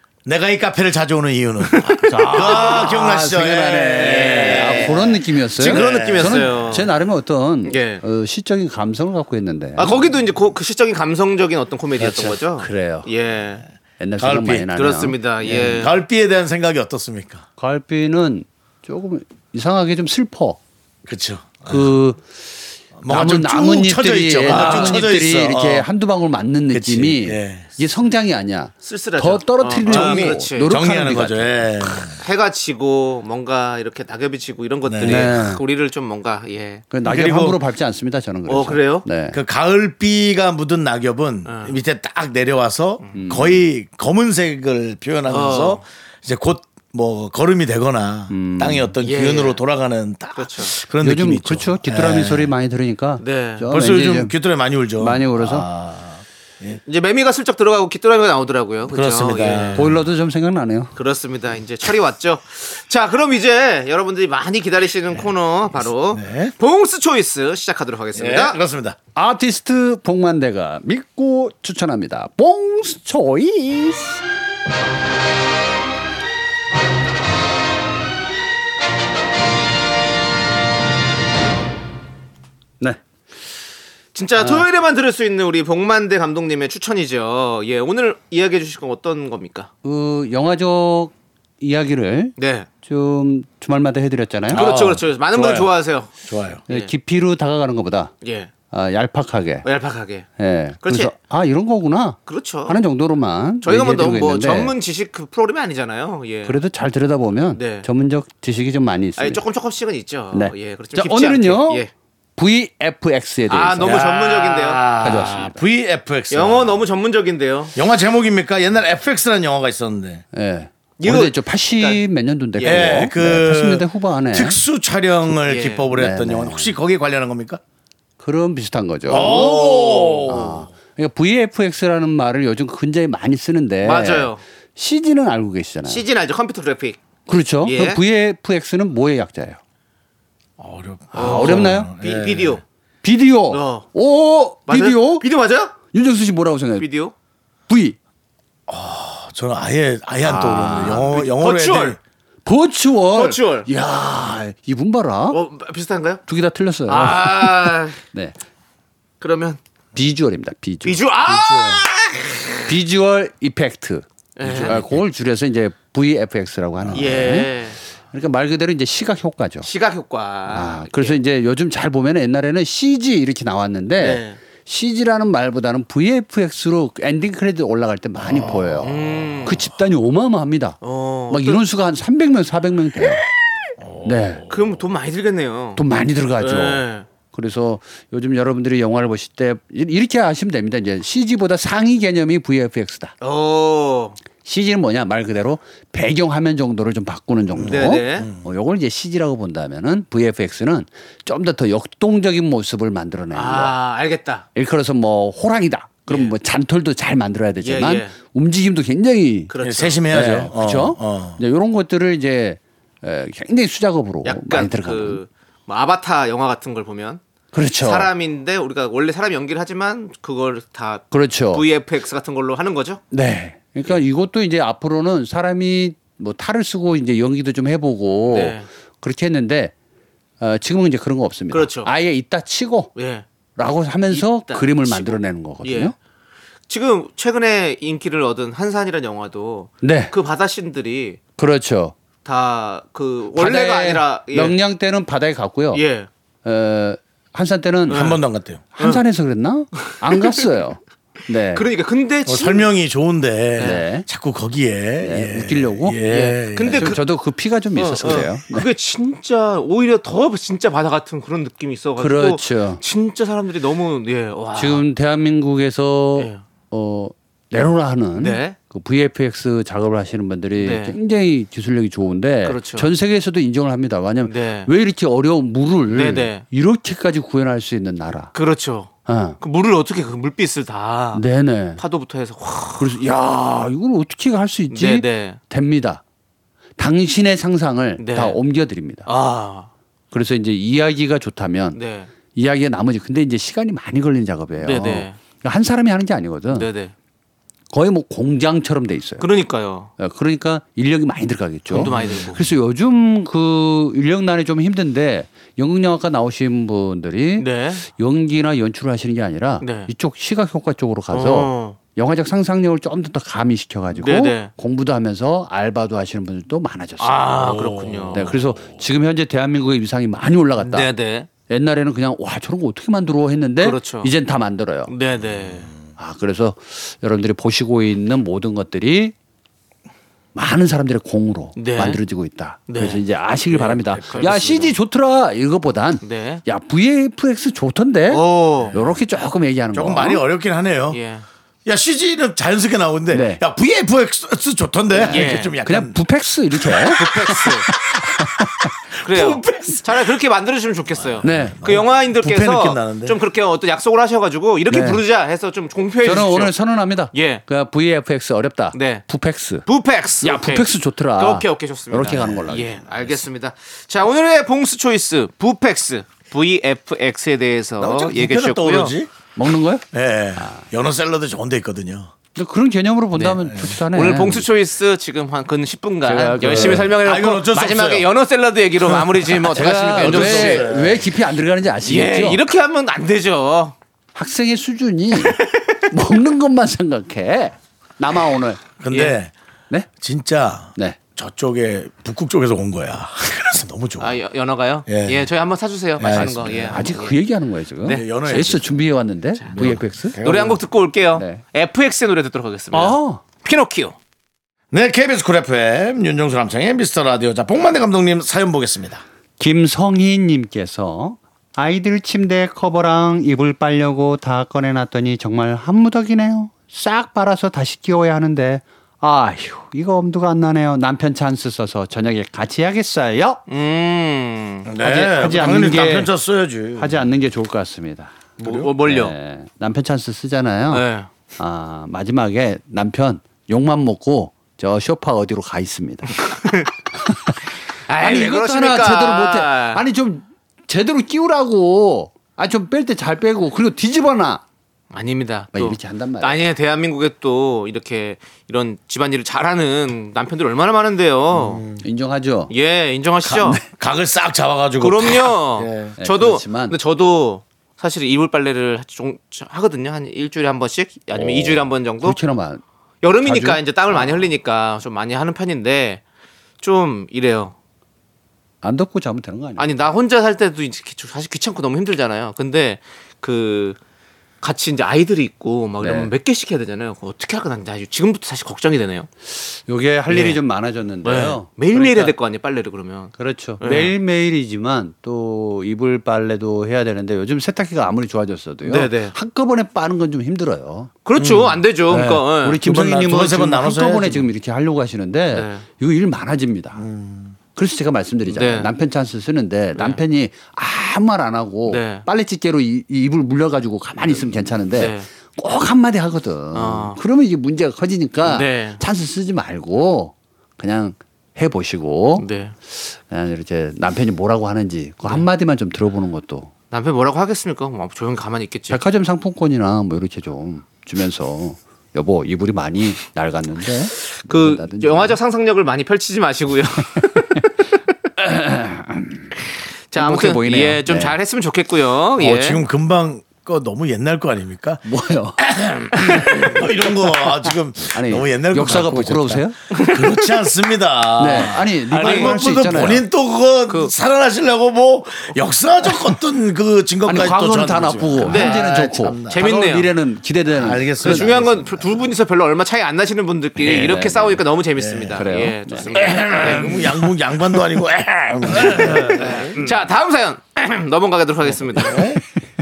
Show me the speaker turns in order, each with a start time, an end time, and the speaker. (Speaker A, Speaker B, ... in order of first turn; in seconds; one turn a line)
Speaker A: 0.2-6.7
Speaker B: 1.7-2.9
Speaker C: 2.1-10.0
Speaker B: 4.0-6.9
Speaker B: 7.7-8.0
Speaker B: 9.8-13.6
Speaker C: 12.0-13.1
Speaker C: 14.0-15.8
Speaker A: 14.2-14.7
Speaker B: 14.8-15.9
Speaker A: 15.5-17.4
Speaker C: 17.6-20.6
Speaker A: 21.1-21.9
Speaker C: 21.6-22.2
Speaker A: 23.0-25.9
Speaker C: 23.1-31.7
Speaker B: 24.5-25.1
Speaker A: 26.7-27.8
Speaker B: 28.8-30.7
Speaker A: 29.9-32.2
Speaker B: 32.2-36.9
Speaker A: 34.9-35.3
Speaker C: 35.0-35.6
Speaker C: 36.9-39.4
Speaker A: 37.0-37.6
Speaker B: 38.5-39.1
Speaker A: 39.3-52.5
Speaker B: 41.5-41.8
Speaker C: 43.1-43.6
Speaker B: 45.3-45.8
Speaker C: 48.3-48.9
Speaker B: 49.0-49.6
Speaker B: 50.4-50.7
Speaker C: 51.0-54.3
Speaker B: 53.2-53.6
Speaker A: 53.7-56.8
Speaker C: 55.0-55.7
Speaker B: 56.9-59.9
Speaker A: 58.9-60.0
Speaker C: 59.8-60.9
Speaker B: 61.0-68.6
Speaker A: 66.1-66.5
Speaker A: 68.1-69.0
Speaker C: 69.2-74.2
Speaker B: 84.2-89.7
Speaker C: 84.4-84.7
Speaker C: 89.8-94.7
Speaker B: 92.4-92.7
Speaker A: 94.5-95.7
Speaker B: 94.5-96.1
Speaker A: 96.2-96.6
Speaker C: 96.7-98.1
Speaker B: 98.2-98.5
Speaker C: 98.7-99.7
Speaker B: 99.6-100.3
Speaker C: 100.4-104.7
Speaker B: 100.8-101.1
Speaker B: 102.3-102.8
Speaker B: 103.6-106.6
Speaker C: 106.5-109.4
Speaker B: 107.5-107.9
Speaker B: 109.2-111.9
Speaker C: 110.3-114.0
Speaker B: 113.5-114.8
Speaker A: 113.8-116.8
Speaker C: 115.0-115.6
Speaker B: 116.3-117.8
Speaker A: 117.8-120.2
Speaker C: 120.3-124.6
Speaker B: 121.0-122.0
Speaker B: 122.6-123.0
Speaker A: 122.6-127.6
Speaker B: 125.5-125.9
Speaker C: 125.9-126.7
Speaker C: 128.2-136.0
Speaker A: 129.1-130.7
Speaker B: 129.2-130.2
Speaker B: 133.8-134.4
Speaker B: 135.9-137.0
Speaker C: 137.3-139.6
Speaker B: 137.6-138.0
Speaker A: 140.6-142.6
Speaker C: 141.1-141.9
Speaker B: 141.2-142.6
Speaker C: 143.0-145.3
Speaker B: 143.5-143.9
Speaker B: 144.7-145.8
Speaker C: 145.8-146.9
Speaker B: 146.8-147.1
Speaker C: 147.7-148.0
Speaker A: 148.7-152.0
Speaker C: 150.2-151.2
Speaker B: 151.0-152.0
Speaker C: 152.4-155.4
Speaker B: 153.1-153.7
Speaker B: 155.3-156.2
Speaker C: 156.3-158.3
Speaker B: 156.9-158.0
Speaker B: 159.2-159.6
Speaker C: 159.9-161.1
Speaker B: 160.8-162.7
Speaker A: 161.3-161.8
Speaker C: 162.7-167.6
Speaker B: 164.4-164.9
Speaker A: 164.4-164.9
Speaker B: 166.9-167.8
Speaker C: 168.1-169.7
Speaker B: 169.6-171.2
Speaker C: 170.5-183.2
Speaker B: 174.0-174.4
Speaker A: 178.2-178.9
Speaker B: 178.8-179.6
Speaker B: 180.8-181.6
Speaker A: 183.8-184.4
Speaker C: 184.0-184.5
Speaker B: 184.5-185.8
Speaker C: 185.8-193.1
Speaker B: 186.4-187.1
Speaker B: 193.2-194.2
Speaker C: 194.4-203.8
Speaker A: 197.6-198.4
Speaker B: 197.6-198.3
Speaker B: 203.3-204.5
Speaker C: 204.6-209.5
Speaker B: 206.1-206.3
Speaker B: 207.6-208.2
Speaker B: 209.5-210.0
Speaker A: 209.6-211.4
Speaker C: 210.1-215.2
Speaker B: 214.2-217.2
Speaker C: 217.5-218.1
Speaker B: 217.8-223.0
Speaker C: 221.1-221.7
Speaker C: 223.1-229.7
Speaker B: 228.3-228.7
Speaker C: 230.4-232.9
Speaker B: 231.5-231.9
Speaker B: 233.0-233.2
Speaker C: 233.6-235.9
Speaker B: 234.1-235.9
Speaker B: 236.7-241.2
Speaker C: 239.8-240.1
Speaker C: 241.4-241.9
Speaker B: 242.2-244.6
Speaker C: 243.3-245.8
Speaker B: 245.7-246.1
Speaker C: 246.4-248.1
Speaker B: 247.9-248.2
Speaker A: 247.9-248.6
Speaker C: 248.8-251.7
Speaker B: 250.1-250.4
Speaker B: 251.5-252.7
Speaker A: 252.3-256.9
Speaker B: 253.6-253.8
Speaker C: 253.6-254.1
Speaker C: 255.0-256.0
Speaker B: 256.1-257.0
Speaker C: 256.7-258.7
Speaker B: 257.8-264.9
Speaker C: 262.0-262.8
Speaker C: 264.6-278.3
Speaker B: 266.2-266.4
Speaker B: 268.2-268.6
Speaker B: 270.6-271.0
Speaker B: 272.4-272.9
Speaker B: 274.2-274.7
Speaker B: 275.9-276.4
Speaker B: 278.3-281.2
Speaker C: 279.1-279.4
Speaker C: 281.1-281.8
Speaker B: 281.8-283.0
Speaker C: 282.8-286.0
Speaker B: 284.7-285.4
Speaker C: 286.8-289.1
Speaker B: 288.0-288.4
Speaker B: 289.1-289.7
Speaker C: 290.1-291.8
Speaker B: 291.7-292.1
Speaker C: 292.3-296.7
Speaker B: 294.6-295.2
Speaker B: 296.5-296.9
Speaker C: 297.7-299.3
Speaker B: 299.2-299.9
Speaker C: 300.0-317.2
Speaker B: 301.7-302.5
Speaker B: 307.4-307.8
Speaker B: 309.6-309.9
Speaker B: 311.1-311.8
Speaker B: 314.0-314.5
Speaker B: 317.0-318.4
Speaker A: 317.4-318.6
Speaker C: 318.1-320.9
Speaker B: 320.6-321.3
Speaker C: 321.5-324.9
Speaker B: 323.6-324.1
Speaker B: 324.9-325.7
Speaker C: 326.0-329.1
Speaker C: 330.4-340.2
Speaker B: 331.6-332.0
Speaker B: 332.7-334.7
Speaker A: 334.1-334.4
Speaker B: 336.0-336.4
Speaker B: 338.1-338.8
Speaker A: 339.7-341.0
Speaker B: 340.9-341.3
Speaker A: 341.7-346.0
Speaker C: 343.1-343.4
Speaker C: 344.9-348.7
Speaker B: 345.1-345.5
Speaker B: 346.9-347.7
Speaker B: 349.0-356.6
Speaker A: 349.1-349.7
Speaker A: 351.1-353.2
Speaker C: 351.2-351.6
Speaker C: 354.7-355.0
Speaker C: 356.0-359.6
Speaker B: 357.1-357.4
Speaker B: 358.7-359.1
Speaker B: 359.7-368.9
Speaker C: 360.2-362.8
Speaker A: 362.2-362.4
Speaker A: 367.8-369.2
Speaker C: 369.4-369.8
Speaker A: 369.9-372.1
Speaker C: 372.4-374.5
Speaker B: 373.9-380.7
Speaker C: 376.0-376.9
Speaker A: 376.4-378.1
Speaker A: 379.4-381.1
Speaker C: 379.5-382.4
Speaker B: 381.9-383.8
Speaker C: 384.1-388.6
Speaker B: 385.3-385.6
Speaker A: 388.8-389.3
Speaker B: 388.9-389.2
Speaker A: 390.0-394.2
Speaker B: 394.0-397.2
Speaker A: 394.9-395.3
Speaker A: 396.0-396.7
Speaker C: 396.1-400.5
Speaker A: 397.9-398.8
Speaker B: 399.4-403.9
Speaker A: 399.5-400.6
Speaker C: 401.1-401.4
Speaker C: 402.7-403.2
Speaker A: 404.7-409.0
Speaker C: 409.4-423.4
Speaker B: 423.5-424.7
Speaker A: 424.7-427.1
Speaker C: 424.8-426.1
Speaker C: 426.8-428.2
Speaker B: 428.4-429.2
Speaker A: 428.4-428.7
Speaker C: 428.8-430.9
Speaker B: 430.7-431.1
Speaker C: 431.4-436.4
Speaker B: 436.4-436.7
Speaker C: 437.0-437.4
Speaker B: 437.9-439.8
Speaker C: 438.0-444.4
Speaker B: 444.9-451.6
Speaker C: 445.5-446.4
Speaker A: 451.3-451.8
Speaker C: 451.8-452.5
Speaker B: 452.5-453.6
Speaker C: 453.3-453.6
Speaker A: 453.6-456.0
Speaker B: 454.8-462.2
Speaker C: 456.0-456.8
Speaker C: 461.1-462.6
Speaker B: 463.0-466.0
Speaker C: 463.2-464.3
Speaker B: 466.6-467.6
Speaker C: 468.6-469.7
Speaker B: 469.6-473.8
Speaker B: 474.4-479.1
Speaker C: 475.8-476.1
Speaker C: 479.4-482.1
Speaker B: 480.1-480.4
Speaker B: 481.0-484.0
Speaker C: 483.2-490.9
Speaker B: 488.6-489.1
Speaker B: 491.1-492.6
Speaker A: 491.2-494.3
Speaker C: 491.9-496.8
Speaker B: 495.3-495.6
Speaker A: 496.8-497.4
Speaker C: 497.5-512.3
Speaker B: 498.3-498.7
Speaker B: 499.8-500.0
Speaker B: 501.7-502.1
Speaker B: 504.7-505.1
Speaker B: 506.5-507.0
Speaker B: 508.2-508.8
Speaker B: 512.2-512.5
Speaker C: 512.8-516.5
Speaker B: 516.7-518.8
Speaker C: 518.7-525.2
Speaker B: 524.1-527.3
Speaker C: 527.0-527.4
Speaker C: 528.2-529.3
Speaker B: 529.9-532.6
Speaker C: 530.0-531.2
Speaker A: 532.2-534.9
Speaker C: 534.9-535.4
Speaker A: 535.4-549.4
Speaker C: 536.0-536.4
Speaker C: 537.9-539.6
Speaker B: 539.7-540.3
Speaker C: 541.2-543.0
Speaker B: 541.9-542.4
Speaker C: 547.1-551.3
Speaker B: 548.2-548.7
Speaker B: 549.3-549.9
Speaker A: 550.5-552.1
Speaker B: 551.0-556.8
Speaker C: 553.6-554.4
Speaker A: 554.8-555.2
Speaker C: 555.1-556.9
Speaker A: 555.9-559.6
Speaker B: 558.6-562.1
Speaker C: 558.7-559.2
Speaker A: 561.7-562.2